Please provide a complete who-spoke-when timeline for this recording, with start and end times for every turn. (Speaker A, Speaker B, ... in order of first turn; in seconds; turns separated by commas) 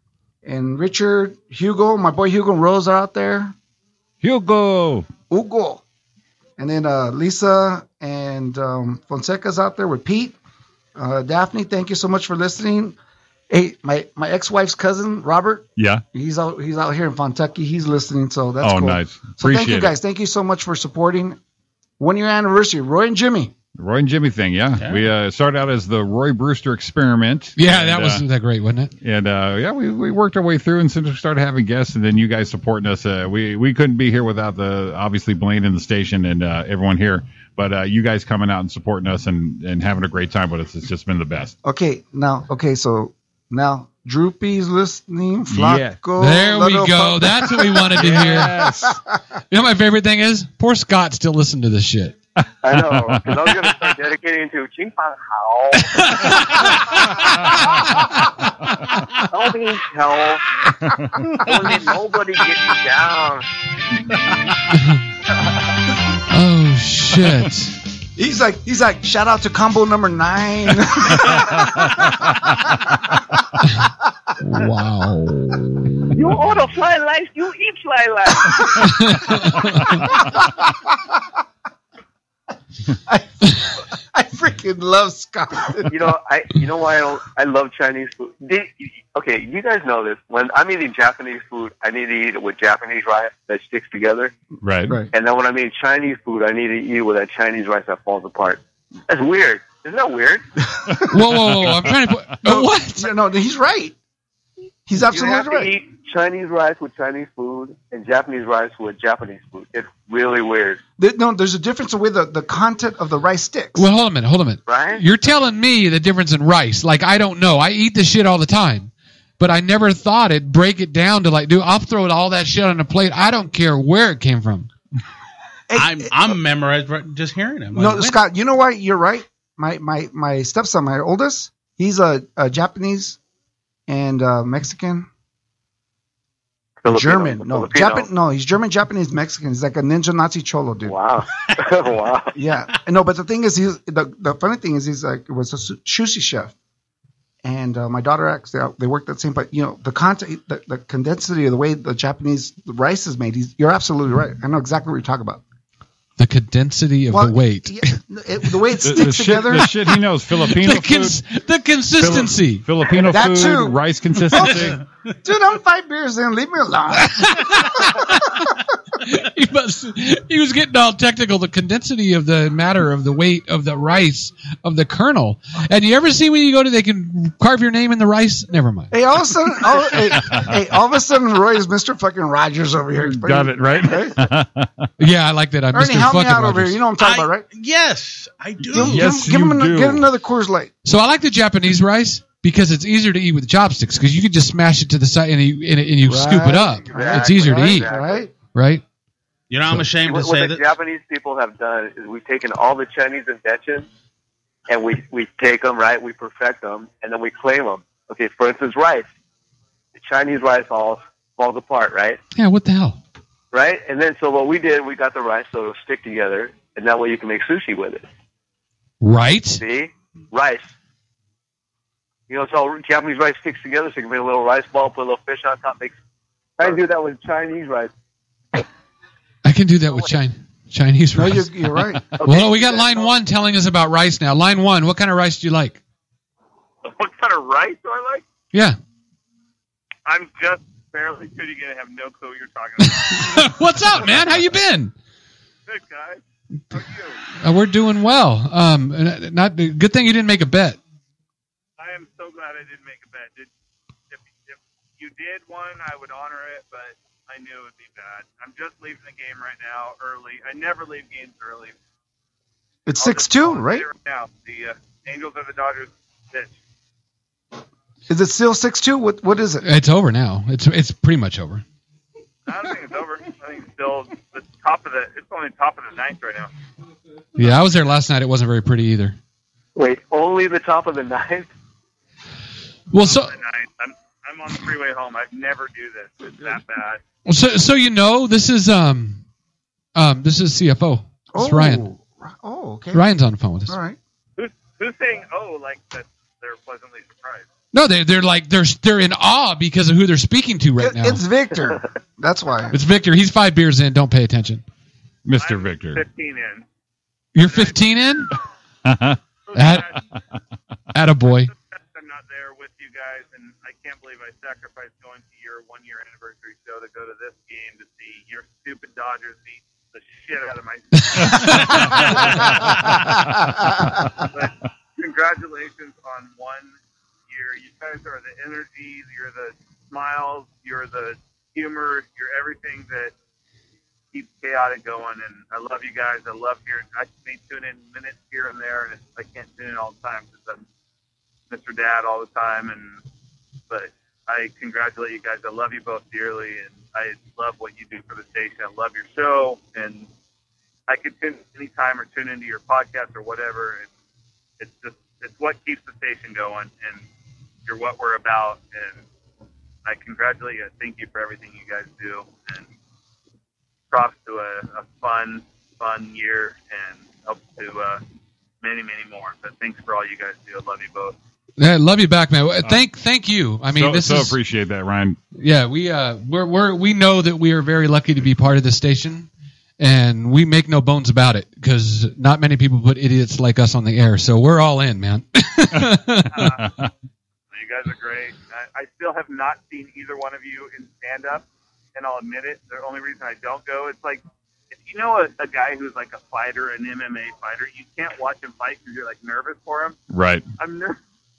Speaker A: 0.4-3.5, Speaker B: 4.2-5.1, Speaker A: 5.3-5.8, Speaker A: 6.6-10.4, Speaker A: 11.0-13.0, Speaker A: 13.5-21.4, Speaker B: 15.8-16.0, Speaker B: 18.6-19.9, Speaker A: 22.0-23.5, Speaker B: 23.8-28.2, Speaker C: 24.8-25.0, Speaker D: 27.6-28.9, Speaker B: 29.0-41.5, Speaker A: 41.6-49.0, Speaker B: 45.5-46.0, Speaker D: 46.2-48.5, Speaker B: 48.0-49.0, Speaker D: 49.5-52.1, Speaker E: 52.6-56.4, Speaker B: 52.7-53.3, Speaker D: 56.0-56.7, Speaker E: 59.3-60.4, Speaker E: 61.4-63.5, Speaker D: 66.3-67.8, Speaker A: 68.2-73.1, Speaker D: 74.4-76.1, Speaker E: 76.1-78.9, Speaker A: 78.5-78.8, Speaker D: 78.8-80.0, Speaker A: 83.1-86.1, Speaker E: 85.9-94.3, Speaker B: 94.6-95.0, Speaker E: 95.1-100.4, Speaker D: 101.1-103.1, Speaker B: 101.5-102.0, Speaker A: 102.4-104.0, Speaker A: 104.9-105.7, Speaker E: 105.0-110.8, Speaker A: 111.0-113.9, Speaker D: 113.8-124.7, Speaker E: 114.7-115.0, Speaker A: 125.7-126.3, Speaker C: 125.8-128.2, Speaker A: 127.8-133.2, Speaker A: 133.9-135.1, Speaker E: 136.8-138.1, Speaker A: 136.9-141.0, Speaker E: 140.9-142.3, Speaker A: 142.3-146.5, Speaker A: 147.4-155.4, Speaker D: 156.2-158.0, Speaker A: 157.1-159.8, Speaker B: 158.8-161.2, Speaker D: 160.4-162.6, Speaker B: 162.0-164.8, Speaker A: 163.0-168.0, Speaker D: 167.0-168.4, Speaker D: 169.0-178.9, Speaker A: 178.9-184.2, Speaker B: 183.1-184.7, Speaker D: 185.0-186.8, Speaker A: 185.7-187.4, Speaker C: 187.0-189.2, Speaker A: 188.7-190.7, Speaker B: 188.7-190.1, Speaker D: 190.8-197.9, Speaker A: 196.1-198.3, Speaker E: 196.9-198.2, Speaker D: 198.5-198.8, Speaker C: 199.5-200.7, Speaker E: 200.0-203.9, Speaker E: 204.7-209.1, Speaker E: 210.0-212.2, Speaker D: 212.3-213.0, Speaker E: 213.5-218.1, Speaker D: 219.0-219.6, Speaker E: 219.6-220.7, Speaker E: 222.3-225.9, Speaker E: 226.6-227.9, Speaker D: 229.4-231.5, Speaker A: 231.1-232.1, Speaker D: 232.1-235.8, Speaker E: 232.2-233.2, Speaker F: 236.8-238.2, Speaker F: 240.1-243.6, Speaker D: 242.8-244.9, Speaker F: 245.7-246.2, Speaker F: 246.7-247.2, Speaker D: 247.4-250.8, Speaker F: 251.8-253.5, Speaker F: 254.1-261.7, Speaker A: 262.9-263.9, Speaker F: 262.9-266.5, Speaker A: 268.1-269.7, Speaker D: 269.6-271.6, Speaker F: 272.5-276.5, Speaker D: 277.4-279.2, Speaker E: 279.8-281.5, Speaker D: 282.9-283.3, Speaker F: 283.0-287.0, Speaker D: 287.3-289.2, Speaker D: 289.9-291.9, Speaker A: 291.3-293.1, Speaker D: 292.9-293.8, Speaker A: 293.7-294.0, Speaker F: 294.4-297.5, Speaker D: 297.7-301.2, Speaker A: 300.8-302.8, Speaker D: 302.7-304.6, Speaker B: 305.2-306.0, Speaker F: 305.4-306.6, Speaker D: 307.4-308.3, Speaker F: 307.4-307.9, Speaker B: 308.9-309.2, Speaker F: 309.5-310.0, Speaker D: 309.6-309.9, Speaker D: 310.9-311.5, Speaker F: 311.8-321.7, Speaker D: 321.2-321.8, Speaker B: 321.7-322.9, Speaker F: 324.3-326.7, Speaker F: 327.3-333.1, Speaker F: 334.1-340.6, Speaker F: 341.5-343.0, Speaker F: 343.7-350.1, Speaker F: 350.9-353.9, Speaker F: 354.6-357.0, Speaker F: 357.7-359.0, Speaker F: 359.9-362.7, Speaker F: 363.9-368.0, Speaker F: 368.6-371.1, Speaker D: 371.6-374.4, Speaker B: 373.7-375.2, Speaker D: 375.4-379.3, Speaker D: 379.8-386.5, Speaker B: 385.8-386.9, Speaker F: 386.3-386.6, Speaker F: 387.5-391.4, Speaker F: 391.9-400.0, Speaker B: 400.1-400.5, Speaker F: 400.6-401.0